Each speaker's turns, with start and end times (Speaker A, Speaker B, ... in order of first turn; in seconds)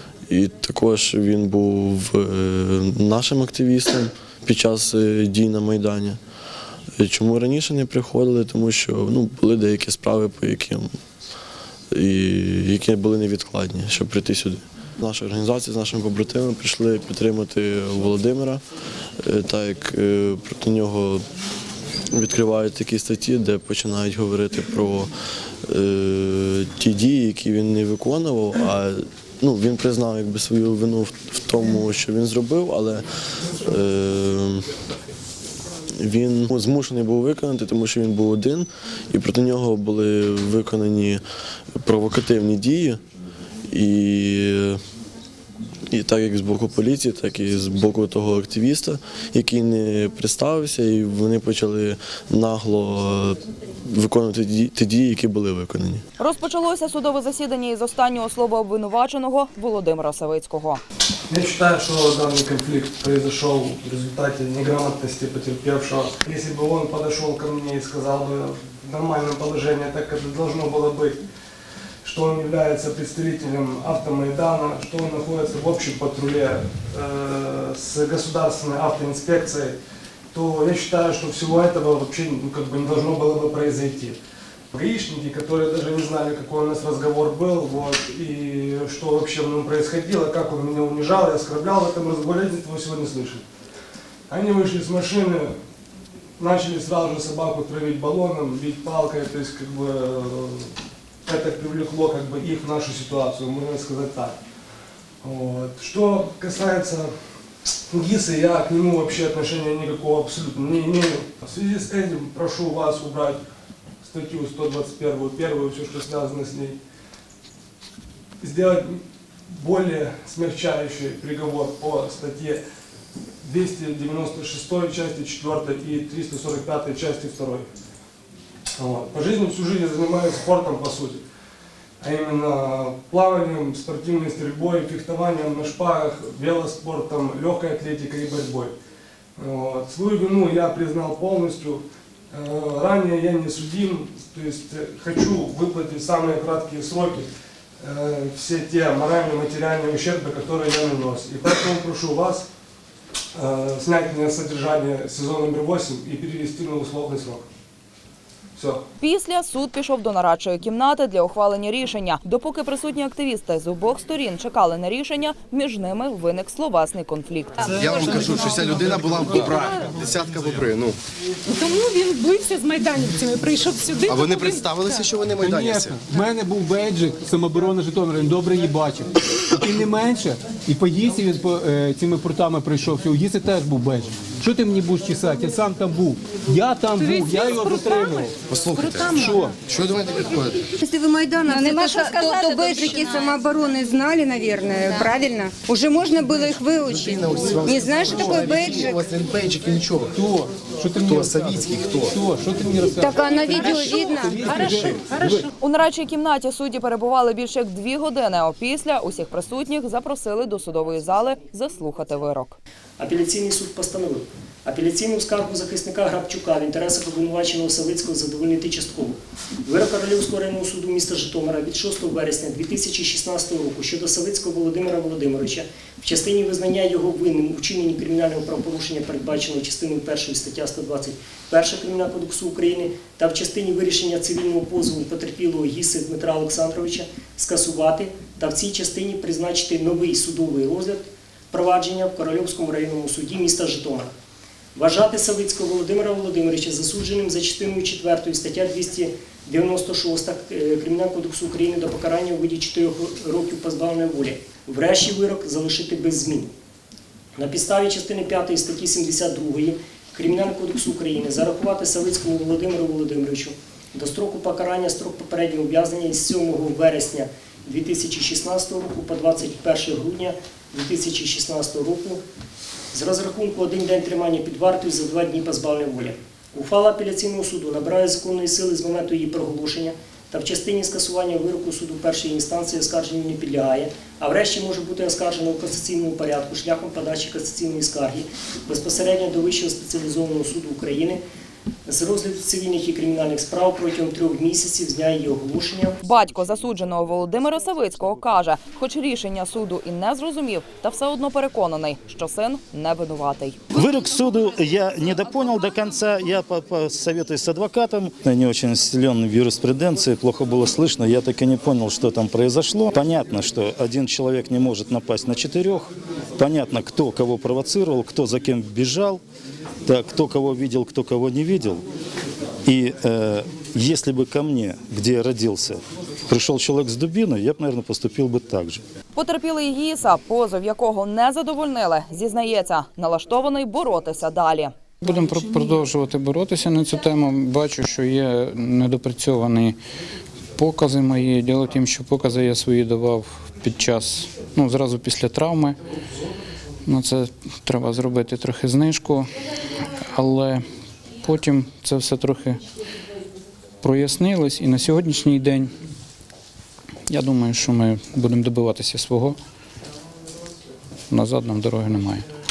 Speaker A: 0.3-6.2, 7.0-10.9, 11.9-18.6, 19.2-21.2, 22.1-25.1, 25.7-34.7, 36.0-41.2, 41.8-43.0, 43.7-44.8, 45.9-56.0
Speaker B: 56.2-60.8, 159.0-167.6, 205.6-212.6, 296.0-303.6, 329.1-334.8
Speaker C: 61.3-71.2, 72.0-79.8, 80.3-84.2, 84.7-93.4, 94.3-95.5, 96.4-100.7, 101.2-104.4, 105.2-107.1, 107.9-113.4, 114.0-116.8, 118.4-122.6, 123.4-127.7, 128.8-131.2, 132.0-138.7, 139.4-147.3, 147.8-152.4, 153.3-157.4, 158.6-158.8
Speaker D: 167.6-171.0, 174.1-176.0, 188.5-190.7, 196.9-200.2, 201.0-202.2
Speaker E: 171.5-175.1, 187.0-189.1, 191.5-193.3, 203.4-205.4
Speaker F: 175.4-188.3, 189.2-189.5, 200.2-205.5
Speaker G: 190.8-199.1, 203.0-204.4
Speaker H: 213.0-244.1, 244.8-256.5, 257.3-272.2, 272.9-291.2, 291.9-296.0
Speaker I: 303.7-319.2, 319.9-321.8, 322.6-328.8
Speaker J: 335.0-339.8, 340.6-345.8, 346.9-349.3, 350.1-350.6, 351.2-352.6, 353.8-355.7, 357.1-359.4, 361.1-362.2